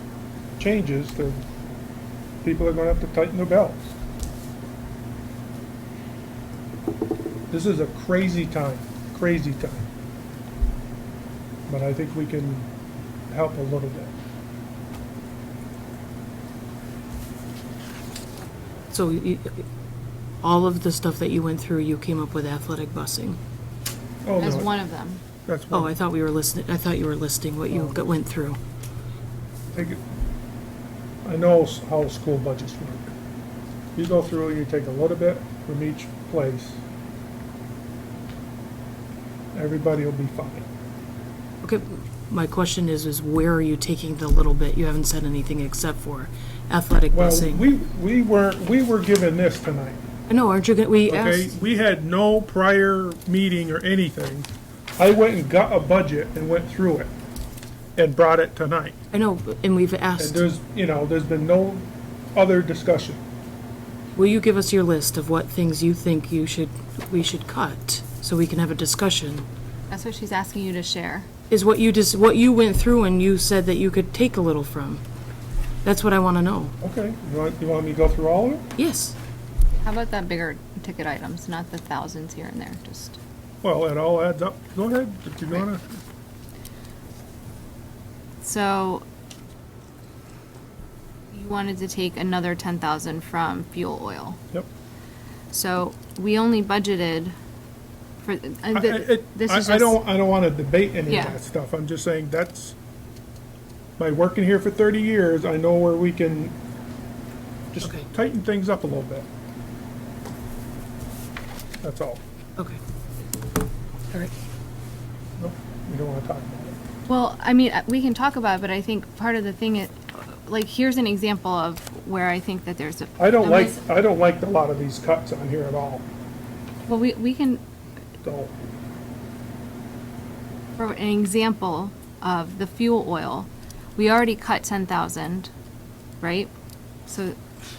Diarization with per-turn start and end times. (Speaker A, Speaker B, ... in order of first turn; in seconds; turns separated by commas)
Speaker A: 0.6-1.4, Speaker A: 2.4-3.9, Speaker A: 7.5-9.9, Speaker A: 11.7-12.7, Speaker A: 13.3-14.1, Speaker B: 18.9-19.6, Speaker B: 20.4-23.4, Speaker A: 24.2-24.7, Speaker C: 24.4-25.2, Speaker A: 25.4-25.9, Speaker B: 25.7-28.6, Speaker A: 27.7-28.0, Speaker A: 29.7-30.0, Speaker A: 31.2-33.1, Speaker A: 34.0-36.8, Speaker A: 39.5-40.7, Speaker B: 41.6-47.7, Speaker A: 47.1-50.0, Speaker B: 50.3-51.5, Speaker A: 51.1-57.1, Speaker A: 58.0-59.0, Speaker B: 59.1-60.4, Speaker A: 60.2-63.2, Speaker B: 64.2-69.5, Speaker C: 69.9-71.3, Speaker B: 71.5-75.0, Speaker B: 75.8-76.7, Speaker A: 76.8-78.7, Speaker B: 78.8-79.2, Speaker C: 79.8-83.2, Speaker A: 83.6-85.8, Speaker C: 88.4-89.0, Speaker C: 91.3-94.4, Speaker C: 95.5-97.3, Speaker C: 98.2-100.0, Speaker A: 98.7-102.8, Speaker C: 101.1-101.4, Speaker A: 104.0-106.5, Speaker A: 107.7-109.3, Speaker A: 111.8-112.2, Speaker A: 115.4-116.8, Speaker C: 117.1-123.8, Speaker A: 123.2-126.0, Speaker C: 126.9-127.6, Speaker A: 128.2-128.5, Speaker C: 130.8-135.5, Speaker C: 136.2-136.5, Speaker C: 137.1-137.3